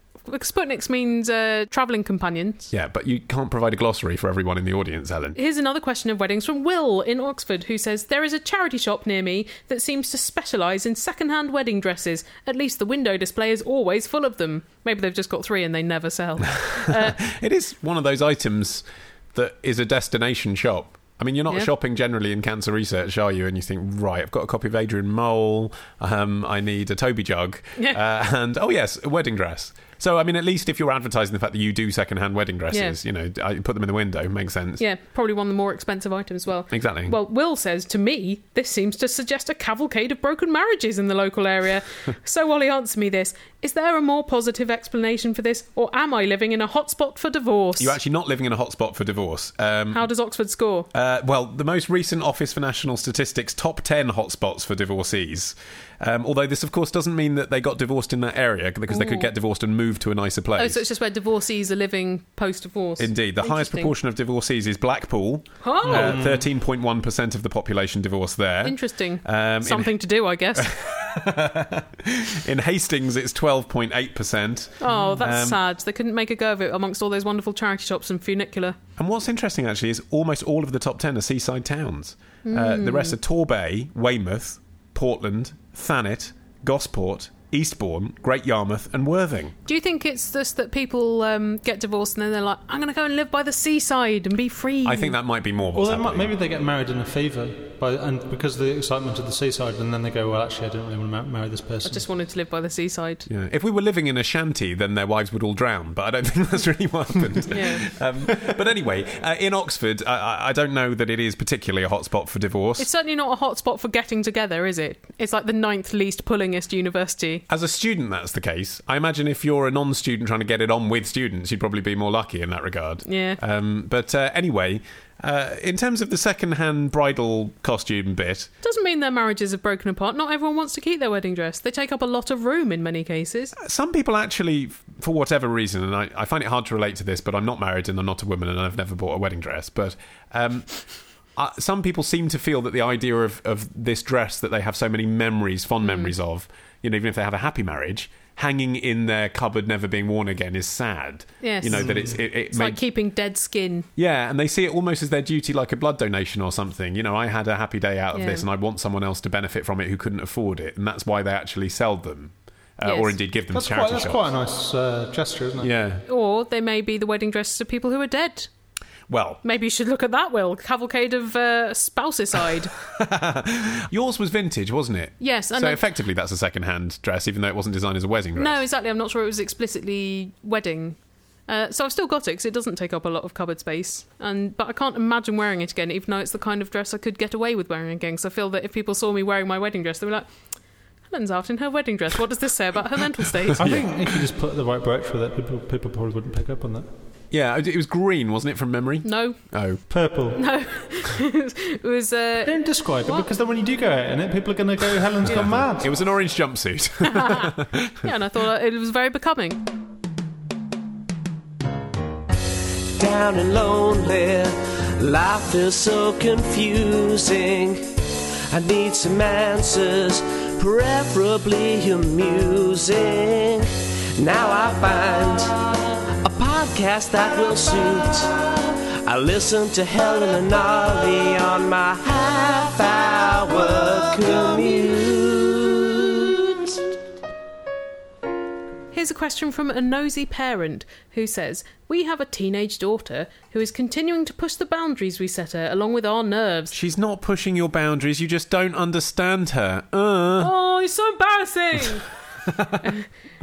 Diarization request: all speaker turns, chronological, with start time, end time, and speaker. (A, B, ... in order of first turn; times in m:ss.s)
0:00.3-0:02.7 A
0:02.7-0:05.4 B
0:05.3-0:17.2 A
0:16.6-0:34.8 B
0:32.7-0:33.0 A
0:34.8-0:48.0 A
0:36.7-0:37.2 B
0:47.8-0:50.0 B
0:49.9-0:50.9 A
0:50.9-1:00.8 B
0:58.9-0:59.3 A
1:00.6-1:03.9 A
1:03.0-1:09.9 B
1:05.6-1:06.2 A
1:05.8-1:06.5 C
1:08.6-1:10.7 A
1:10.6-1:15.6 B
1:14.8-1:18.8 A
1:14.9-1:15.2 C
1:19.0-1:29.5 B
1:22.4-1:23.2 A
1:29.6-1:35.1 A
1:34.8-1:36.3 B
1:35.7-1:42.0 C
1:41.8-1:43.2 A
1:43.3-1:52.9 B
1:47.5-1:47.9 A
1:52.8-1:57.4 A
1:57.5-2:08.5 B
2:03.0-2:03.4 A
2:08.6-2:13.5 A
2:13.6-2:20.8 B
2:21.4-2:32.8 B
2:25.8-2:26.1 A
2:31.4-2:33.9 A
2:31.8-2:32.2 C
2:34.0-2:44.2 B
2:38.1-2:38.4 A
2:42.8-2:43.2 A
2:43.5-2:45.7 C
2:45.6-2:46.0 B
2:46.1-2:48.5 A
2:49.1-2:49.4 B
2:49.4-2:52.7 A
2:52.8-2:58.6 B
2:55.2-2:55.8 A
2:58.4-3:01.0 A
3:01.5-3:10.3 A
3:11.1-3:13.7 A
3:13.5-3:13.9 B
3:13.6-3:16.9 C
3:17.3-3:19.8 B
3:19.0-3:19.4 A
3:19.9-3:20.4 C
3:20.3-3:23.3 A
3:22.4-3:25.9 C
3:25.2-3:28.1 B
3:27.0-3:29.6 A
3:33.0-3:56.9 D
3:58.9-4:06.7 A
4:06.7-4:10.5 B
4:10.4-4:12.1 A
4:12.5-4:12.9 B